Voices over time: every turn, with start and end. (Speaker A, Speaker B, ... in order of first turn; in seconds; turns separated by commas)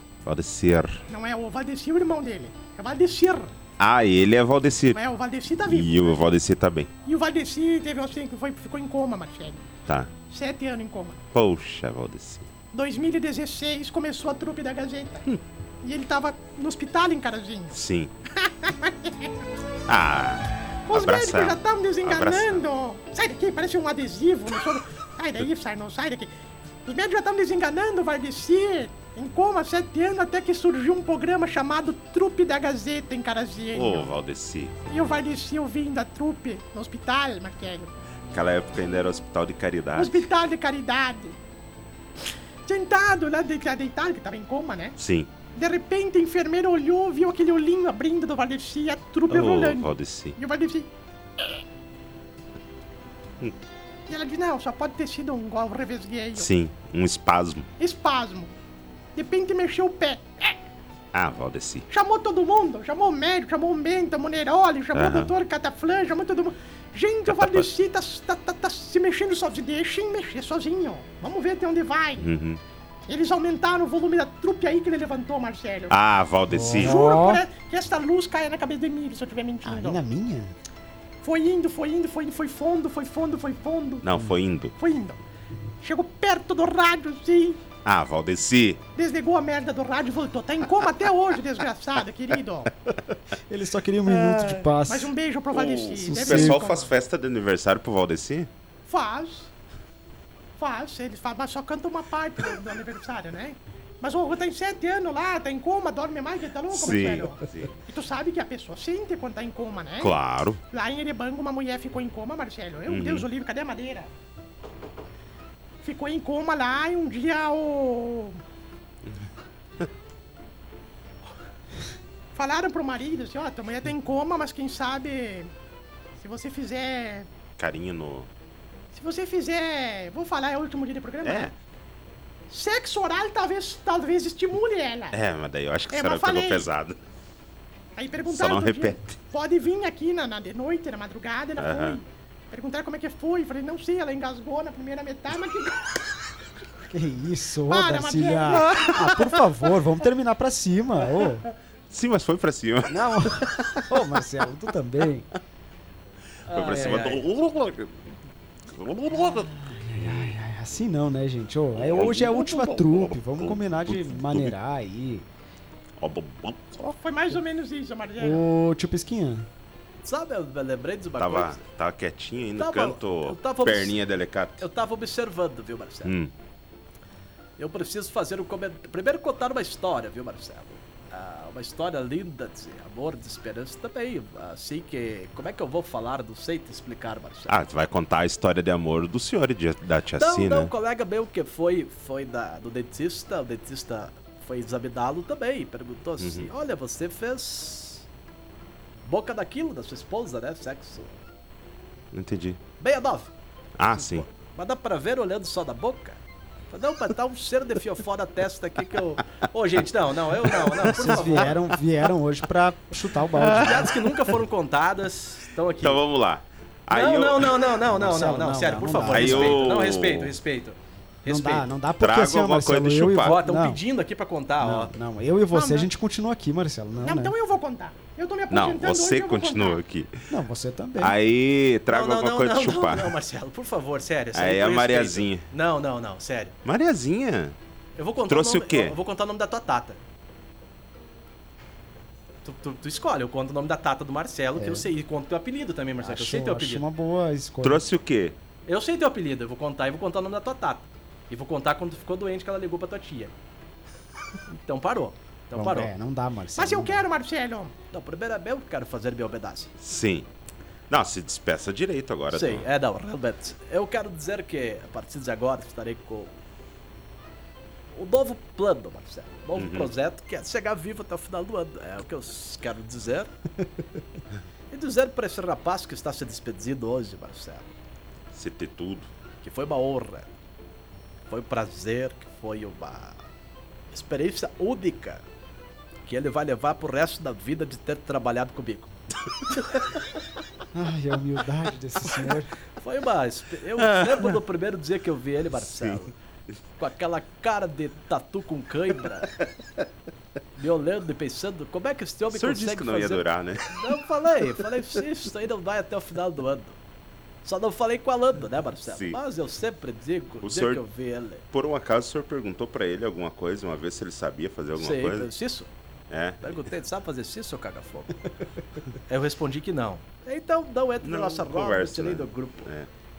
Speaker A: 0.2-1.1, Speaker B: 1.1-3.5, Speaker A: 3.8-5.0, Speaker B: 4.9-6.3, Speaker A: 5.7-6.9, Speaker B: 7.0-9.7, Speaker B: 10.3-11.2, Speaker A: 11.3-12.5, Speaker B: 12.7-15.3, Speaker B: 15.8-17.8, Speaker A: 17.7-18.1, Speaker B: 18.4-19.3, Speaker A: 19.9-22.6, Speaker B: 20.9-26.3, Speaker B: 26.8-34.1, Speaker A: 33.7-34.8, Speaker B: 34.9-37.9, Speaker A: 38.3-40.3, Speaker B: 39.9-41.4, Speaker B: 42.7-45.0, Speaker A: 45.0-45.3, Speaker B: 45.5-50.9, Speaker A: 49.3-50.4, Speaker B: 54.1-56.5, Speaker A: 56.4-57.7, Speaker B: 57.8-58.5, Speaker B: 59.1-60.6, Speaker A: 61.1-61.9, Speaker B: 61.9-72.3, Speaker A: 65.0-65.3, Speaker A: 67.3-67.7, Speaker A: 72.2-72.6, Speaker B: 73.1-75.9, Speaker A: 75.9-77.0, Speaker C: 76.5-77.4, Speaker B: 76.8-80.0, Speaker C: 79.6-80.5, Speaker B: 81.2-84.1, Speaker A: 84.0-84.7, Speaker B: 84.8-85.2, Speaker B: 85.8-87.6, Speaker A: 87.8-88.8, Speaker B: 89.0-92.7, Speaker C: 93.3-95.1, Speaker A: 94.2-94.6, Speaker B: 94.9-96.9, Speaker A: 95.5-98.5, Speaker C: 96.0-96.7, Speaker B: 98.9-99.5, Speaker B: 100.6-110.2, Speaker A: 106.7-107.8, Speaker A: 110.0-110.6, Speaker B: 110.7-114.1, Speaker A: 112.9-113.3, Speaker B: 115.8-118.4, Speaker B: 122.3-125.5, Speaker B: 126.2-127.3, Speaker A: 127.6-128.3, Speaker B: 128.9-131.5, Speaker A: 131.2-131.5, Speaker B: 132.5-135.2, Speaker A: 135.1-137.0, Speaker B: 135.9-136.7, Speaker B: 138.0-146.0, Speaker A: 138.3-139.1, Speaker A: 141.6-142.0, Speaker C: 146.8-151.4, Speaker B: 147.7-149.4, Speaker A: 151.9-153.8, Speaker C: 152.9-155.3, Speaker D: 156.5-157.3, Speaker A: 156.5-158.1, Speaker A: 158.7-160.3, Speaker C: 159.3-165.3, Speaker A: 161.8-164.5, Speaker A: 166.0-166.8, Speaker B: 166.8-168.4, Speaker C: 168.2-169.5, Speaker D: 170.0-171.6, Speaker A: 171.2-174.6, Speaker D: 172.6-174.0, Speaker D: 174.6-176.2, Speaker A: 176.0-176.3, Speaker D: 177.6-187.6, Speaker A: 187.5-190.7, Speaker D: 190.2-198.0, Speaker A: 196.2-196.5, Speaker D: 199.0-201.1, Speaker A: 202.1-202.6, Speaker D: 202.8-203.3, Speaker A: 203.8-204.2, Speaker D: 204.2-206.2, Speaker D: 206.7-211.7, Speaker C: 210.8-214.0, Speaker D: 213.4-216.0, Speaker A: 213.4-213.9, Speaker A: 215.8-217.6, Speaker D: 216.9-221.7, Speaker C: 217.8-219.7, Speaker A: 219.1-220.3, Speaker C: 221.3-223.8, Speaker A: 222.0-223.4, Speaker D: 223.2-224.9, Speaker C: 224.6-227.3, Speaker B: 225.5-225.9, Speaker B: 227.0-229.8, Speaker A: 228.5-230.2, Speaker C: 230.3-231.2, Speaker A: 231.0-233.2, Speaker D: 231.9-236.6, Speaker A: 234.3-235.4, Speaker A: 236.7-237.6, Speaker D: 238.0-240.0, Speaker A: 238.3-239.0, Speaker D: 242.4-246.8, Speaker C: 244.5-244.9, Speaker C: 246.0-247.9, Speaker A: 247.6-248.3, Speaker D: 248.7-253.3, Speaker D: 254.5-255.9, Speaker C: 255.5-257.1, Speaker B: 256.6-257.8, Speaker D: 257.9-259.7, Speaker A: 259.8-260.3, Speaker A: 260.9-262.7, Speaker D: 262.3-266.3, Speaker D: 267.9-273.3, Speaker A: 269.5-269.9, Speaker C: 273.6-274.0, Speaker D: 274.7-277.6, Speaker A: 278.3-279.1, Speaker D: 279.4-280.3, Speaker D: 281.3-283.2, Speaker D: 283.9-285.2, Speaker D: 286.1-288.9, Speaker C: 290.7-292.5, Speaker D: 292.1-296.1, Speaker A: 295.7-296.0, Speaker D: 296.8-299.4, Speaker D: 300.6-306.8, Speaker A: 302.3-303.9, Speaker D: 307.4-311.4, Speaker A: 308.9-309.2, Speaker A: 310.4-310.8, Speaker A: 311.5-315.3, Speaker D: 314.8-315.7, Speaker A: 316.1-316.7, Speaker D: 316.4-318.2, Speaker D: 319.1-322.7, Speaker A: 321.0-322.9